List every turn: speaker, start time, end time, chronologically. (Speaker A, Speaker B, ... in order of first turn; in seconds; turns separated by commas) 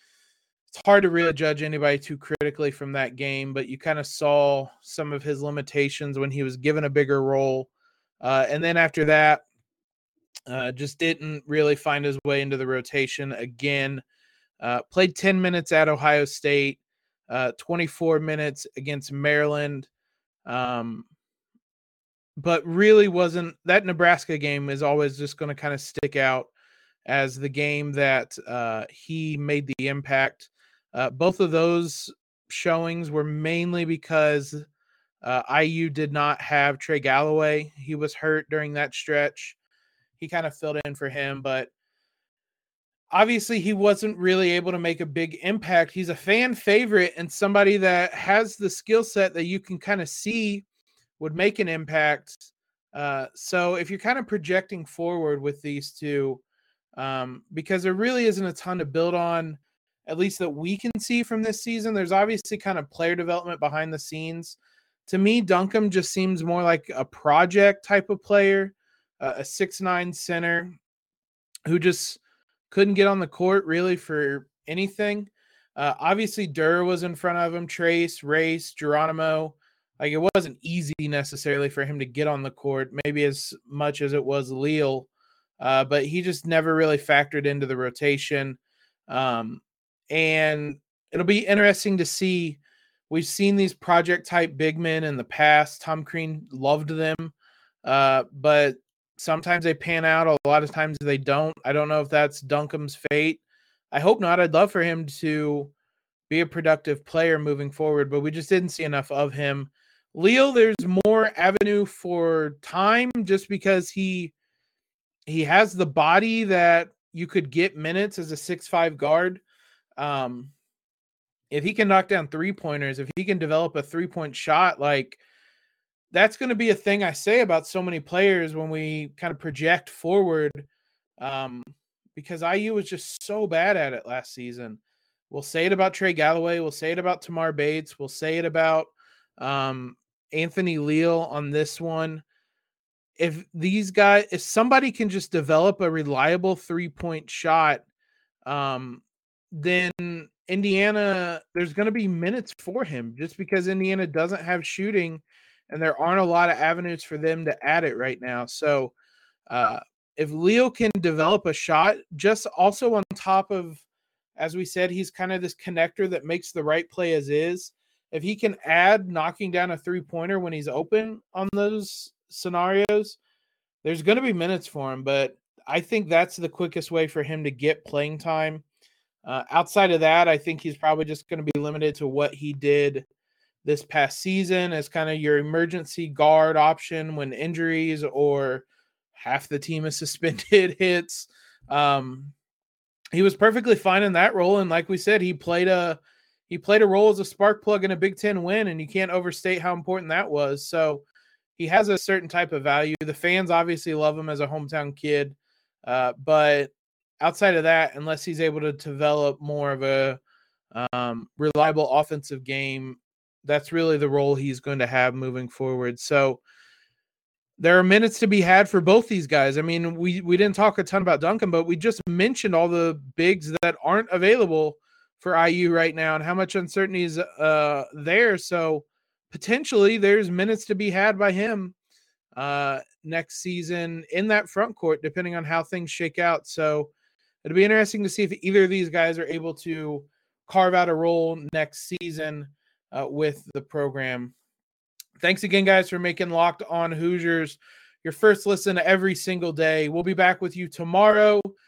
Speaker A: 0.7-7.7, Speaker A: 8.2-9.4, Speaker A: 10.5-14.0, Speaker A: 14.6-19.9, Speaker A: 20.4-21.1, Speaker A: 22.4-26.5, Speaker A: 27.0-34.6, Speaker A: 35.2-39.6, Speaker A: 40.2-41.7, Speaker A: 43.1-50.6, Speaker A: 51.2-56.4, Speaker A: 57.0-70.8, Speaker A: 71.7-85.1, Speaker A: 85.6-97.3, Speaker A: 97.8-103.4, Speaker A: 103.9-105.7, Speaker A: 106.3-114.3, Speaker A: 115.3-119.4, Speaker A: 120.0-120.5, Speaker A: 121.5-125.2, Speaker A: 126.1-130.7, Speaker A: 131.2-142.2, Speaker A: 143.2-147.8, Speaker A: 148.4-158.9, Speaker A: 159.5-163.8, Speaker A: 164.4-173.2, Speaker A: 173.8-178.6, Speaker A: 179.2-183.1, Speaker A: 183.6-188.6, Speaker A: 189.2-192.3, Speaker A: 193.1-201.0, Speaker A: 201.6-210.2, Speaker A: 210.7-216.4, Speaker A: 217.6-231.7, Speaker A: 232.3-236.9, Speaker A: 237.4-244.3, Speaker A: 245.2-251.4